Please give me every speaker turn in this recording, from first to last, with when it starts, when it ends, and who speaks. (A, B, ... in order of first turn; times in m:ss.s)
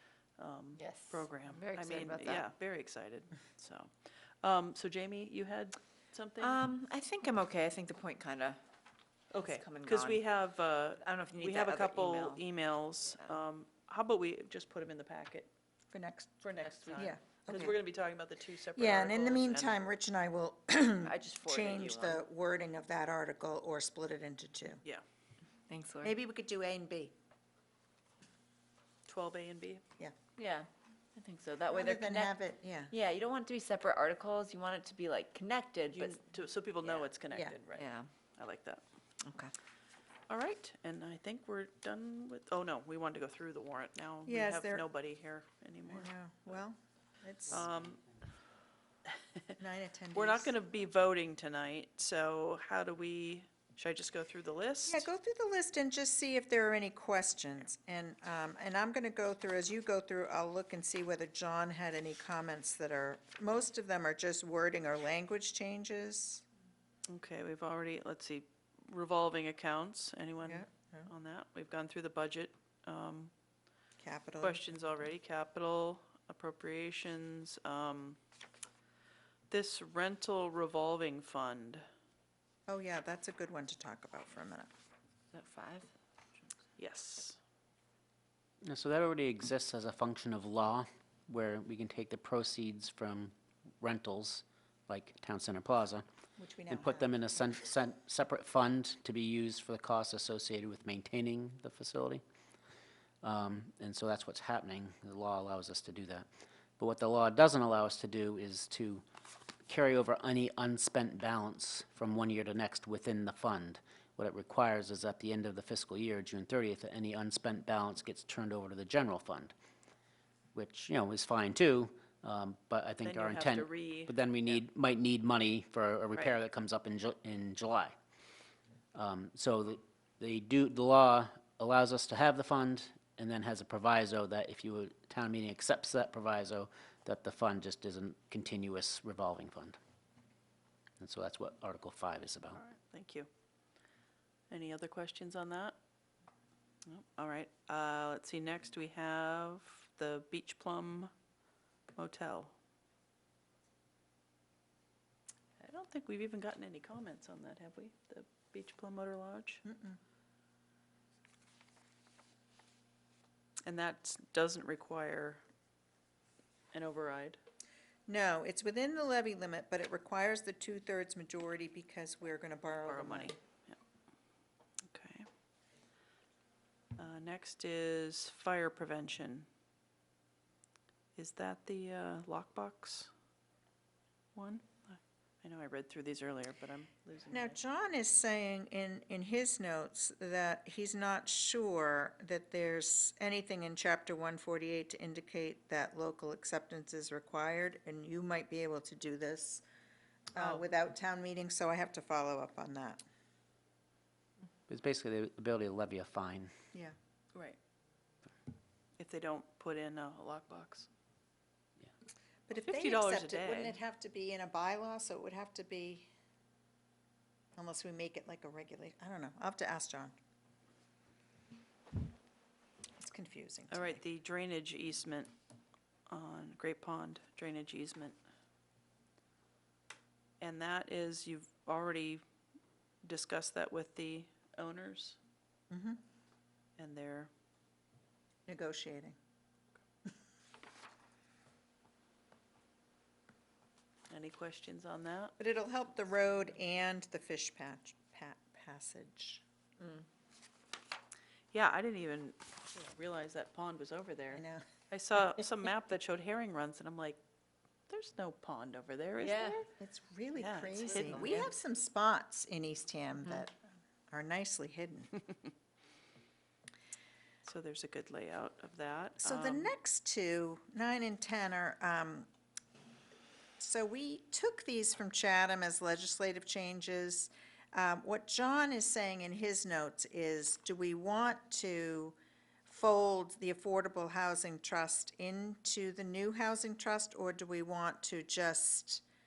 0:00.4-0:06.6 A
0:00.8-0:02.4 B
0:06.4-0:08.6 B
0:09.3-0:15.5 A
0:09.3-0:10.2 B
0:11.0-0:12.4 B
0:15.9-0:17.8 C
0:16.4-0:19.8 A
0:18.8-0:24.8 C
0:21.0-0:22.2 B
0:25.7-0:26.1 B
0:26.0-0:27.1 C
0:29.0-0:29.8 A
0:30.4-0:32.3 B
0:31.7-0:32.9 C
0:32.9-0:36.2 B
0:35.9-0:38.8 A
0:37.7-0:38.1 B
0:39.2-0:39.5 B
0:40.3-0:46.6 A
0:44.2-0:44.8 C
0:45.9-0:47.7 C
0:47.5-0:48.0 A
0:49.1-0:49.5 A
0:49.6-0:50.5 C
0:50.1-0:55.1 A
0:54.9-1:06.4 C
1:07.1-1:13.3 A
1:10.4-1:11.1 C
1:14.0-1:14.6 C
1:14.4-1:18.2 A
1:19.5-1:21.8 A
1:22.7-1:24.7 C
1:25.3-1:25.9 B
1:26.8-1:27.4 A
1:28.6-1:36.0 D
1:36.4-1:37.2 C
1:36.7-1:42.2 D
1:43.2-1:46.3 D
1:46.8-1:49.0 D
1:49.7-1:59.5 D
2:00.5-2:07.9 D
2:03.0-2:04.6 A
2:08.9-2:19.8 D
2:21.0-2:22.6 D
2:22.6-2:23.3 A
2:24.5-2:25.8 A
2:26.8-2:31.1 A
2:32.0-2:32.5 A
2:35.6-2:39.6 A
2:39.6-2:40.0 C
2:43.6-2:45.4 A
2:46.7-2:47.4 A
2:48.1-2:53.4 C
2:52.8-2:53.8 A
2:54.8-2:55.3 A
2:57.0-2:59.5 A
3:01.2-3:03.1 A
3:04.3-3:07.6 A
3:07.3-3:19.6 C
3:20.3-3:23.0 C
3:20.4-3:20.6 A
3:24.7-3:26.5 D
3:29.0-3:30.9 A
3:32.5-3:36.1 C
3:32.5-3:33.8 A
3:37.5-3:40.1 C
3:43.0-3:44.0 C
3:43.7-3:45.3 A
3:46.1-3:48.2 A
3:50.4-3:52.2 A
3:53.0-3:55.2 A
3:55.7-3:56.0 C
3:56.8-3:57.3 A
3:58.5-3:59.1 C
4:04.1-4:05.3 A
4:05.4-4:09.4 C
4:09.8-4:10.0 B
4:11.5-4:17.2 A
4:14.3-4:14.6 C
4:17.9-4:19.7 A
4:19.2-4:19.6 B
4:19.8-4:23.6 C
4:20.4-4:21.5 A
4:21.0-4:21.5 B
4:24.1-4:25.1 C
4:27.4-4:29.7 A
4:29.2-4:32.3 C
4:33.6-4:49.0 C